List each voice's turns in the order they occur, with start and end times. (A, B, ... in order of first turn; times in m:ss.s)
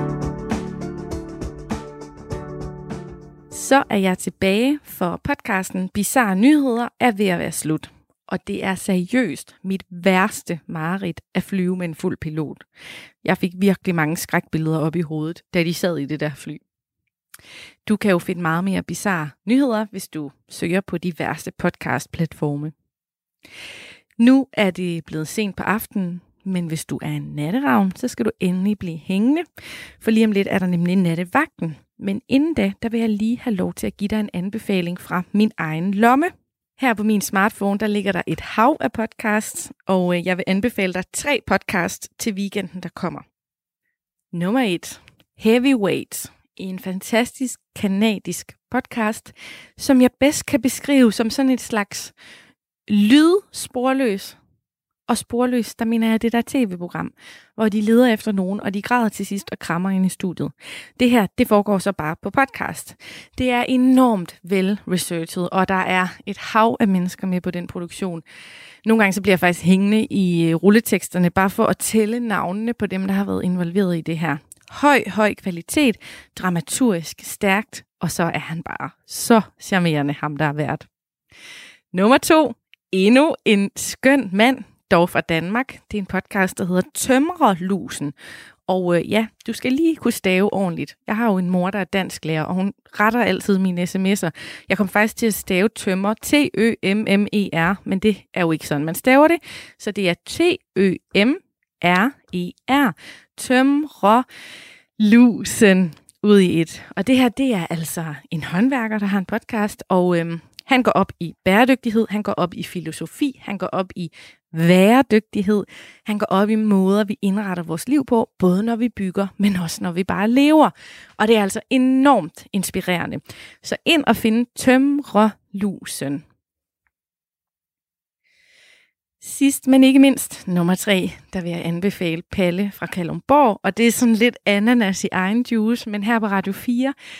0:03.5-0:12.6 A
0:13.2-0:16.6 A
0:17.8-0:22.7 A
0:24.2-0:29.5 A
0:30.0-0:43.2 A
0:44.3-0:52.1 A
0:52.9-0:54.4 A
0:55.1-1:08.2 A
1:08.8-1:20.8 A
1:21.9-1:28.1 A
1:28.7-1:44.2 A
1:45.0-2:06.2 A
2:09.2-2:16.9 A